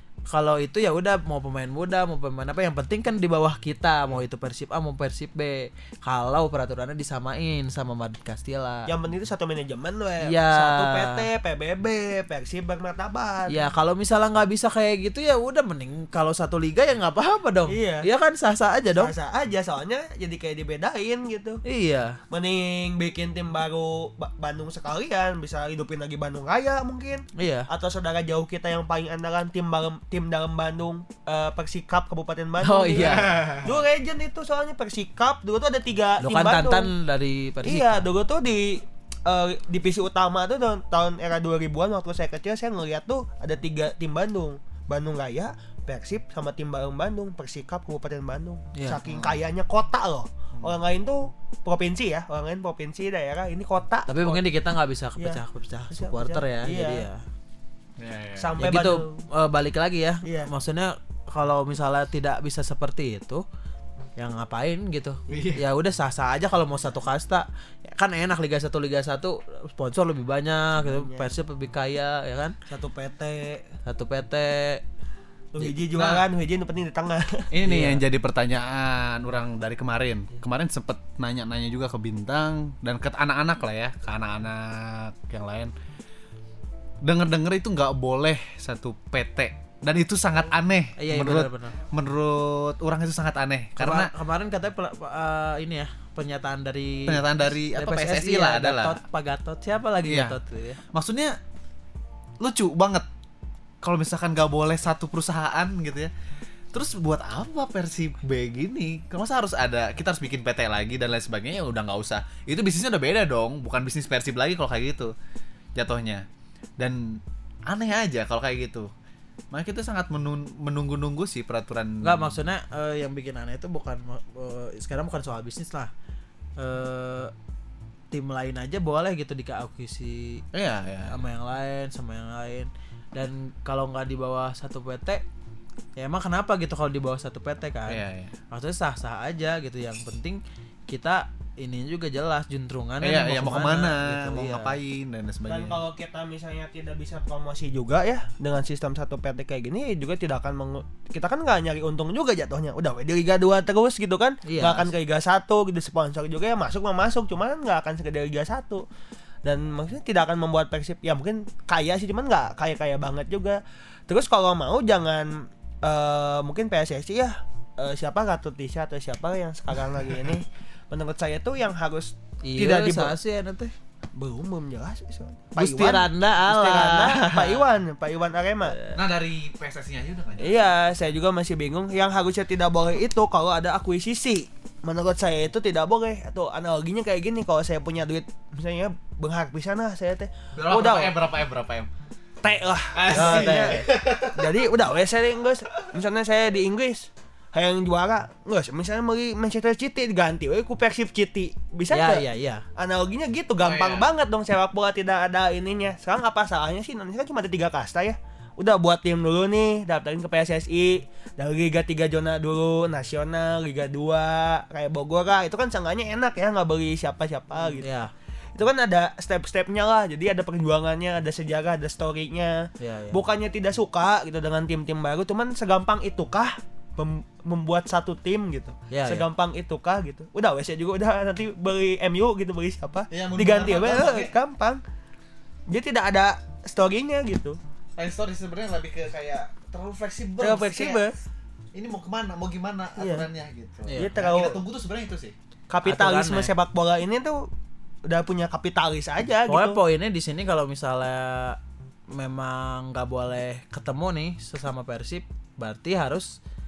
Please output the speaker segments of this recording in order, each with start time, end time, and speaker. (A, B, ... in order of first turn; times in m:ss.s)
0:00.3-0:08.9 A
0:08.9-0:13.6 B
0:10.2-0:11.2 A
0:13.5-0:19.1 A
0:17.7-0:18.1 B
0:18.9-0:21.6 B
0:21.6-0:22.2 A
0:22.3-0:36.9 B
0:27.3-0:27.7 A
0:32.6-0:33.6 A
0:33.0-0:33.7 C
0:36.2-0:38.0 A
0:37.6-0:54.4 B
0:48.7-0:49.0 A
0:49.0-0:49.3 C
0:54.1-0:57.2 A
0:55.2-0:57.1 B
0:58.0-0:58.6 C
0:58.4-0:59.1 B
0:58.6-1:03.4 A
1:00.2-1:00.5 B
1:04.2-1:12.6 A
1:05.3-1:05.6 C
1:10.8-1:11.4 B
1:12.7-1:13.7 B
1:13.8-1:14.8 A
1:15.5-1:17.5 B
1:15.9-1:16.2 C
1:17.5-1:25.7 C
1:17.6-1:18.0 A
1:27.0-1:34.1 C
1:31.0-1:31.8 A
1:33.8-1:40.8 A
1:37.1-1:39.0 C
1:40.0-1:40.4 C
1:40.9-1:41.4 C
1:42.4-1:43.0 C
1:43.8-1:46.1 C
1:46.7-1:55.1 C
1:55.8-1:56.2 C
1:56.8-1:58.9 C
1:59.5-2:02.3 C
2:02.0-2:05.9 A
2:06.6-2:07.3 A
2:08.1-2:10.4 A
2:10.5-2:11.1 C
2:11.1-2:15.2 A
2:16.0-2:24.8 A
2:17.9-2:18.3 C
2:23.0-2:25.8 C
2:25.4-2:38.8 B
2:34.4-2:34.9 A
2:39.4-2:53.2 B
2:52.4-2:53.7 A
2:54.2-2:58.8 B
2:55.6-2:57.6 A
2:58.7-2:59.0 A
2:58.9-3:00.7 C
3:00.4-3:11.1 B
3:10.6-3:11.9 C
3:12.4-3:37.9 B
3:12.9-3:14.6 C
3:13.1-3:13.8 A
3:21.9-3:22.6 A
3:23.6-3:24.1 C
3:37.8-3:38.1 A
3:38.5-3:54.8 B
3:42.8-3:43.2 A
3:48.9-3:49.2 A
3:53.1-3:54.3 C
3:55.7-3:57.6 B
3:58.0-4:01.0 C
4:00.4-4:01.2 B
4:01.7-4:05.3 C
4:03.0-4:03.3 B
4:03.8-4:04.2 A
4:03.9-4:04.6 B
4:05.7-4:07.5 B
4:05.8-4:06.5 A
4:08.1-4:09.8 B
4:09.5-4:11.6 A
4:12.1-4:16.4 A